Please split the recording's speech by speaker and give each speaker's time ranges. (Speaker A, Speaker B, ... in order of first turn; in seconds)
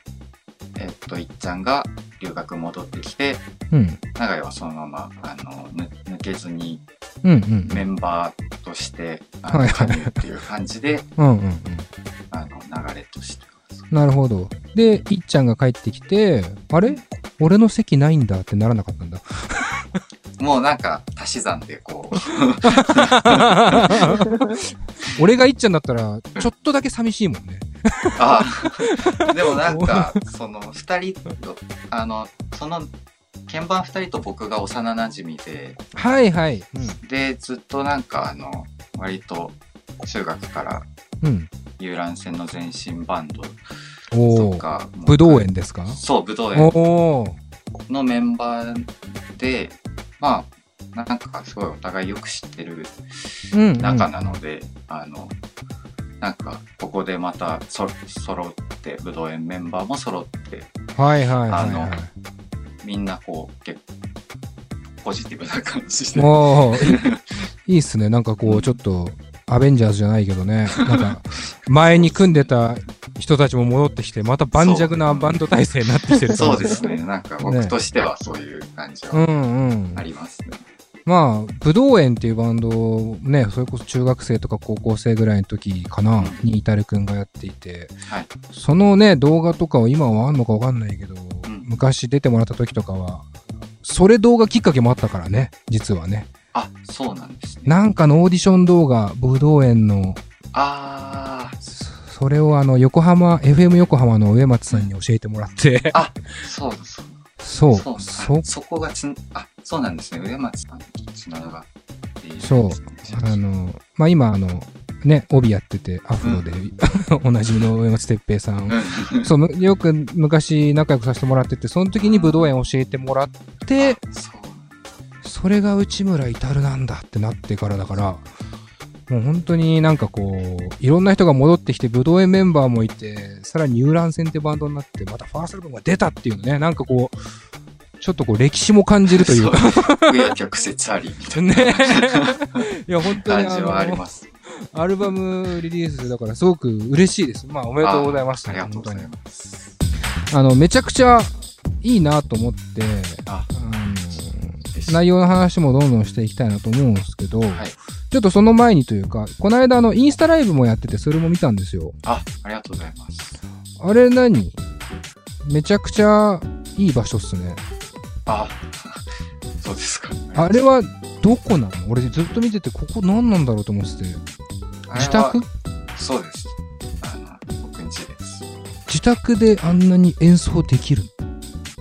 Speaker A: 0.8-3.4, 4.2-6.8, 7.6-11.1, 12.3-14.1, 16.8-17.1, 20.4-24.4, 28.1-32.9, 33.5-35.8, 37.0-40.9, 41.8-43.6, 44.3-46.8, 47.9-53.0, 53.8-55.3, 56.2-60.7, 61.5-62.0, 62.8-63.8, 65.0-67.2, 68.4-68.8, 70.8-71.1, 71.8-72.5, 74.5-75.4, 76.2-79.2, 79.9-80.6, 86.2-86.4, 96.5-97.8, 100.5-101.6, 105.9-111.7, 112.2-113.4, 118.7-119.3, 122.0-122.6, 123.8-124.9, 139.1-142.6, 143.2-144.3, 147.8-149.7, 154.7-155.0, 157.5-157.8, 162.0-163.4, 168.3-170.7, 174.9-175.4, 175.9-178.4
Speaker B: 3.7-4.0, 7.2-7.8, 9.5-10.2, 11.2-11.9, 13.9-20.0, 22.7-24.6, 25.1-30.1, 35.9-37.0, 41.2-41.5, 44.1-46.0, 46.5-47.4, 53.5-54.1, 61.0-62.1, 66.1-67.1, 67.7-76.9, 77.4-77.8, 79.1-80.0, 81.0-88.0, 88.5-93.3, 93.8-96.3, 97.7-100.2, 101.7-106.1, 107.4-108.4, 112.4-124.0, 125.2-128.2, 129.1-137.2, 138.0-140.3, 141.3-144.0, 144.7-149.1, 150.3-161.9, 163.8-164.6, 165.4-167.6, 170.3-174.2, 174.9-175.4, 178.9-181.1